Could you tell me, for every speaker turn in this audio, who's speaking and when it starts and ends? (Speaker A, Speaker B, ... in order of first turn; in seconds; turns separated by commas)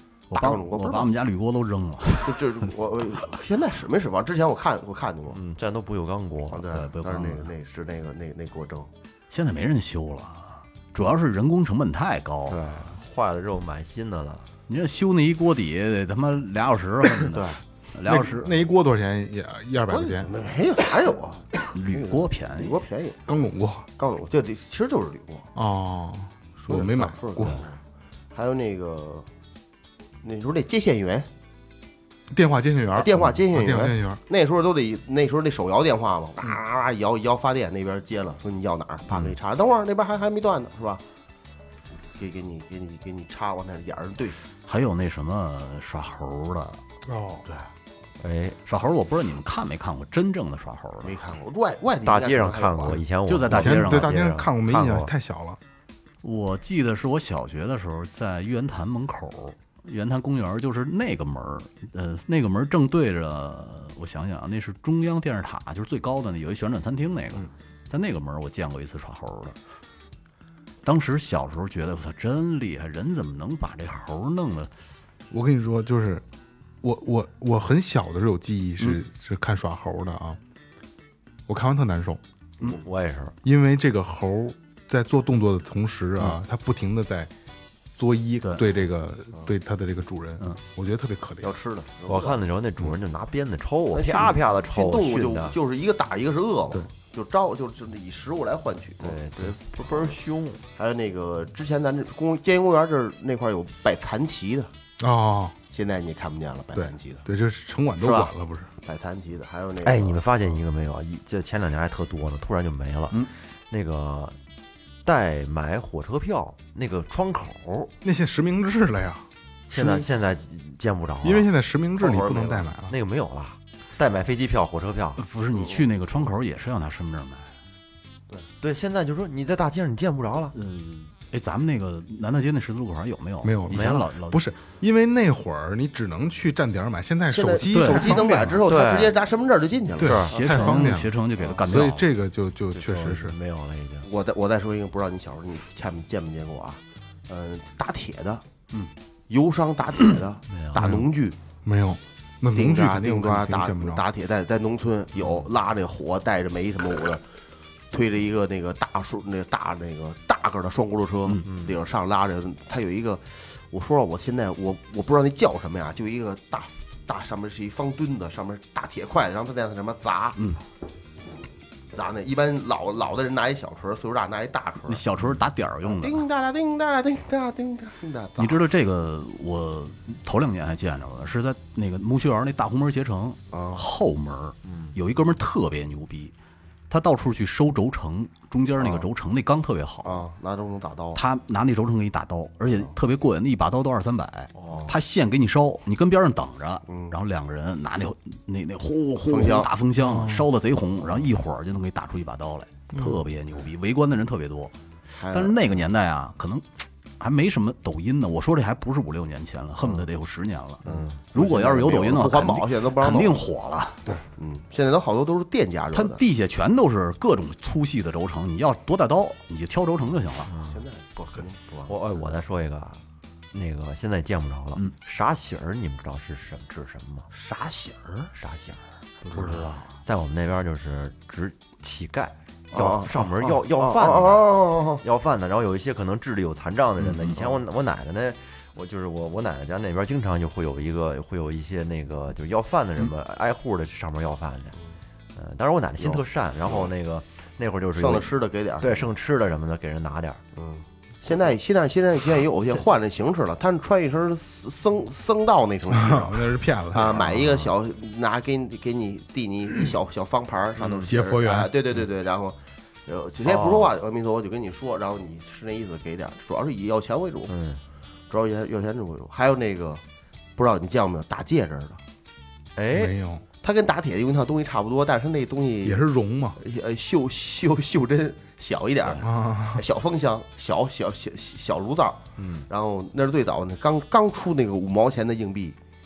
Speaker A: 0.3-3.0, Speaker B: 0.3-1.1, Speaker B: 2.2-5.4, Speaker C: 5.3-6.7, Speaker B: 6.5-8.9, Speaker A: 6.7-7.5, Speaker A: 9.3-12.7, Speaker C: 12.5-14.5, Speaker A: 14.7-18.7, Speaker B: 17.3-17.6, Speaker D: 18.1-20.3, Speaker B: 19.9-23.2, Speaker A: 21.7-22.8, Speaker D: 23.3-23.9, Speaker B: 24.0-25.5, Speaker D: 25.5-27.6, Speaker B: 26.6-27.6, Speaker B: 28.3-29.3, Speaker B: 30.2-31.3, Speaker D: 32.3-34.2, Speaker B: 32.9-41.0, Speaker B: 42.1-44.4, Speaker A: 44.6-46.8, Speaker D: 47.0-47.4, Speaker C: 48.2-48.6, Speaker A: 48.7-51.2, Speaker B: 51.0-53.0, Speaker C: 52.0-55.1, Speaker A: 53.3-54.3, Speaker D: 53.5-55.6, Speaker A: 56.2-69.6, Speaker A: 70.8-74.7, Speaker D: 75.3-76.2, Speaker D: 76.8-80.4, Speaker D: 81.5-82.2, Speaker C: 82.6-83.3, Speaker D: 83.4-87.3, Speaker D: 88.0-91.5, Speaker B: 91.4-92.4, Speaker C: 92.1-95.5, Speaker B: 93.9-100.1, Speaker C: 99.0-100.6, Speaker B: 100.8-104.7, Speaker D: 105.0-105.5, Speaker B: 105.7-107.2, Speaker D: 106.7-108.7, Speaker B: 108.0-110.2, Speaker C: 109.8-114.4, Speaker C: 115.0-117.9, Speaker D: 118.0-120.0, Speaker C: 119.7-125.2, Speaker D: 121.2-122.9, Speaker A: 125.2-127.5, Speaker C: 128.6-130.5, Speaker A: 130.5-134.4, Speaker D: 133.4-138.6, Speaker C: 133.7-134.1, Speaker B: 137.3-140.9, Speaker A: 137.7-138.3, Speaker C: 138.7-139.2, Speaker C: 140.0-140.3, Speaker D: 140.0-141.1, Speaker A: 140.3-142.1, Speaker D: 141.6-143.3, Speaker C: 142.7-144.1, Speaker B: 144.0-148.4, Speaker B: 149.3-151.3, Speaker C: 150.5-150.8, Speaker D: 150.8-151.0, Speaker D: 151.6-154.0, Speaker B: 152.5-157.2, Speaker B: 157.9-170.4, Speaker C: 161.4-161.8, Speaker A: 170.3-170.6, Speaker B: 171.9-175.0, Speaker A: 174.9-176.2, Speaker B: 175.8-178.6, Speaker A: 178.4-186.3, Speaker B: 183.5-183.8, Speaker C: 184.6-184.9, Speaker A: 186.9-190.2, Speaker B: 190.0-191.2, Speaker A: 191.1-204.7, Speaker C: 194.5-194.9, Speaker B: 196.9-197.1, Speaker B: 199.2-199.7, Speaker D: 200.0-200.5, Speaker D: 202.9-203.2, Speaker B: 205.2-205.6, Speaker A: 205.3-210.8, Speaker C: 210.8-211.2, Speaker B: 210.8-213.4, Speaker A: 211.3-214.0, Speaker B: 214.1-216.2, Speaker A: 215.9-220.5, Speaker C: 220.4-220.8, Speaker B: 220.5-221.9, Speaker C: 221.9-227.3, Speaker B: 227.3-228.3, Speaker C: 228.3-244.8, Speaker A: 229.3-229.9, Speaker B: 232.7-235.0, Speaker A: 237.0-237.5, Speaker C: 245.3-250.4, Speaker B: 246.0-246.9, Speaker B: 248.0-249.1, Speaker B: 250.5-267.5, Speaker D: 255.9-257.4, Speaker C: 257.2-257.7, Speaker C: 260.8-261.1, Speaker D: 261.1-261.7, Speaker C: 263.4-263.9, Speaker C: 267.5-267.8, Speaker B: 268.3-270.0, Speaker B: 270.6-272.0, Speaker C: 272.8-273.1, Speaker D: 272.9-273.4, Speaker B: 273.6-285.8, Speaker D: 275.8-276.6, Speaker D: 279.2-279.8, Speaker C: 282.4-282.6